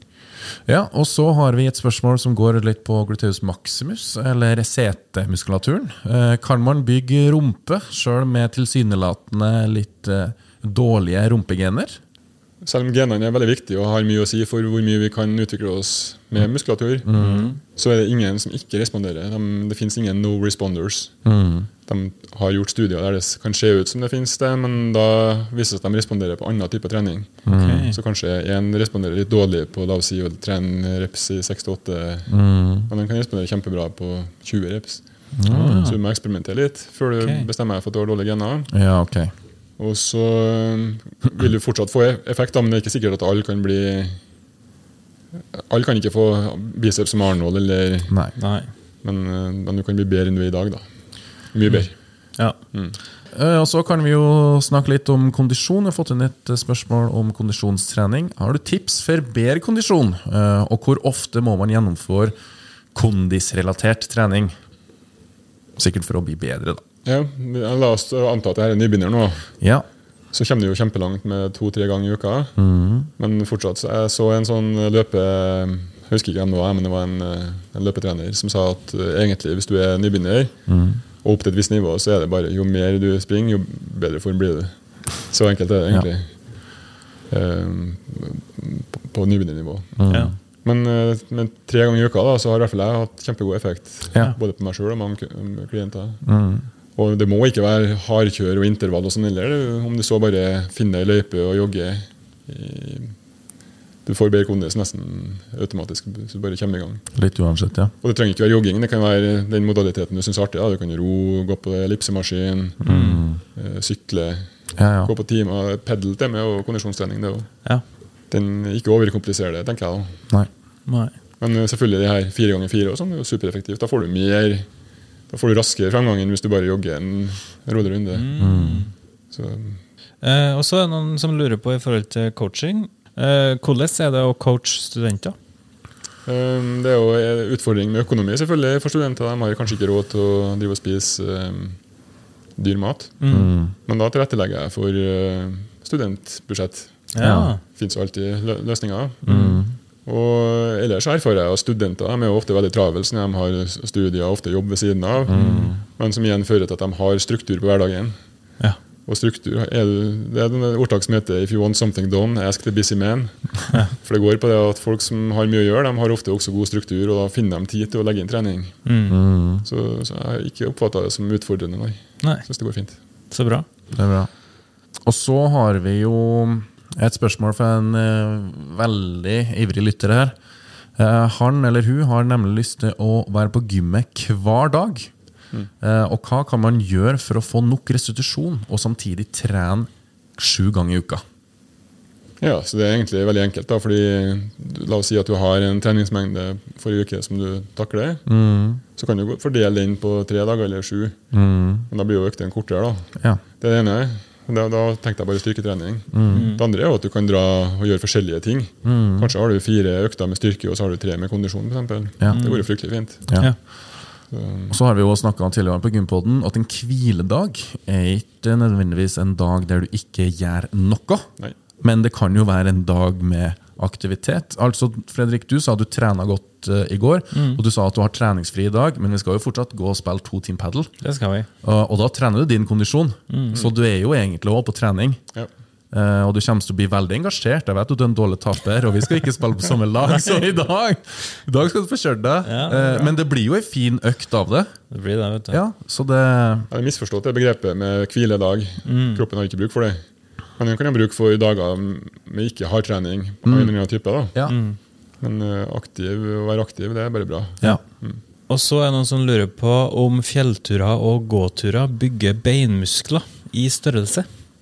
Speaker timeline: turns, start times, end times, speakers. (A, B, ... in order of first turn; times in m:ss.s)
0:00.4-0:12.0 A
0:12.6-0:21.2 B
0:17.1-0:17.5 A
0:17.2-0:17.6 C
0:21.2-0:21.7 A
0:21.9-0:38.7 B
0:27.5-0:27.9 A
0:27.6-0:28.0 C
0:32.3-0:32.9 A
0:35.4-0:35.9 A
0:35.5-0:36.0 C
0:37.2-0:37.5 C
0:38.7-0:39.3 A
0:39.8-0:44.2 B
0:45.6-0:48.2 B
0:48.4-0:48.7 C
0:49.0-0:52.0 B
0:52.7-0:53.0 B
0:53.3-1:02.4 A
1:02.9-1:04.6 A
1:05.8-1:06.8 A
1:07.0-1:09.6 B
1:10.3-1:26.7 B
1:12.6-1:13.1 A
1:20.7-1:21.0 A
1:27.3-1:30.0 B
1:30.0-1:30.3 A
1:30.6-1:36.4 B
1:36.2-1:36.7 A
1:37.0-1:43.2 B
1:44.0-1:47.2 B
1:47.2-1:47.9 A
1:48.0-1:52.8 B
1:52.8-1:53.4 A
1:52.8-1:53.2 C
1:53.4-1:57.6 B
1:54.8-1:55.1 A
1:58.3-2:00.2 B
2:00.9-2:01.1 C
2:01.4-2:04.7 B
2:05.3-2:08.3 B
2:08.1-2:08.9 C
2:08.4-2:08.9 A
2:09.3-2:09.8 B
2:10.2-2:15.4 C
2:16.3-2:21.8 B
2:22.6-2:29.3 B
2:23.2-2:23.5 C
2:23.3-2:23.7 A
2:27.1-2:27.6 C
2:27.2-2:27.5 A
2:29.2-2:29.6 C
2:29.3-2:29.8 A
2:30.1-2:38.2 B
2:35.3-2:35.8 A
2:35.4-2:35.7 C
2:39.1-2:48.8 B
2:48.9-2:49.2 C
2:49.1-2:49.7 A
2:49.6-2:53.0 B
2:53.3-2:53.6 C
2:53.9-2:54.3 A
2:55.0-3:00.4 A
3:01.0-3:05.1 A
3:05.8-3:11.2 A
3:12.4-3:18.3 B
3:18.3-3:18.8 A
3:18.9-3:21.3 B
3:21.3-3:21.9 A
3:21.9-3:33.7 B
3:26.1-3:26.5 A
3:26.3-3:26.6 C
3:28.8-3:29.3 A
3:32.3-3:32.7 C
3:33.3-3:33.5 A
3:34.3-3:34.8 B
3:34.7-3:50.9 A
3:47.3-3:47.6 C
3:51.0-3:51.5 C
3:51.6-3:55.2 A
3:53.3-3:53.6 C
3:55.9-4:04.7 A
4:02.5-4:03.2 C
4:04.9-4:05.6 C
4:05.5-4:06.7 A
4:06.7-4:10.0 B
4:08.8-4:09.2 C
4:10.6-4:14.4 B
4:13.5-4:13.7 A
4:14.5-4:14.8 C
4:15.2-4:18.2 B
4:18.5-4:24.3 C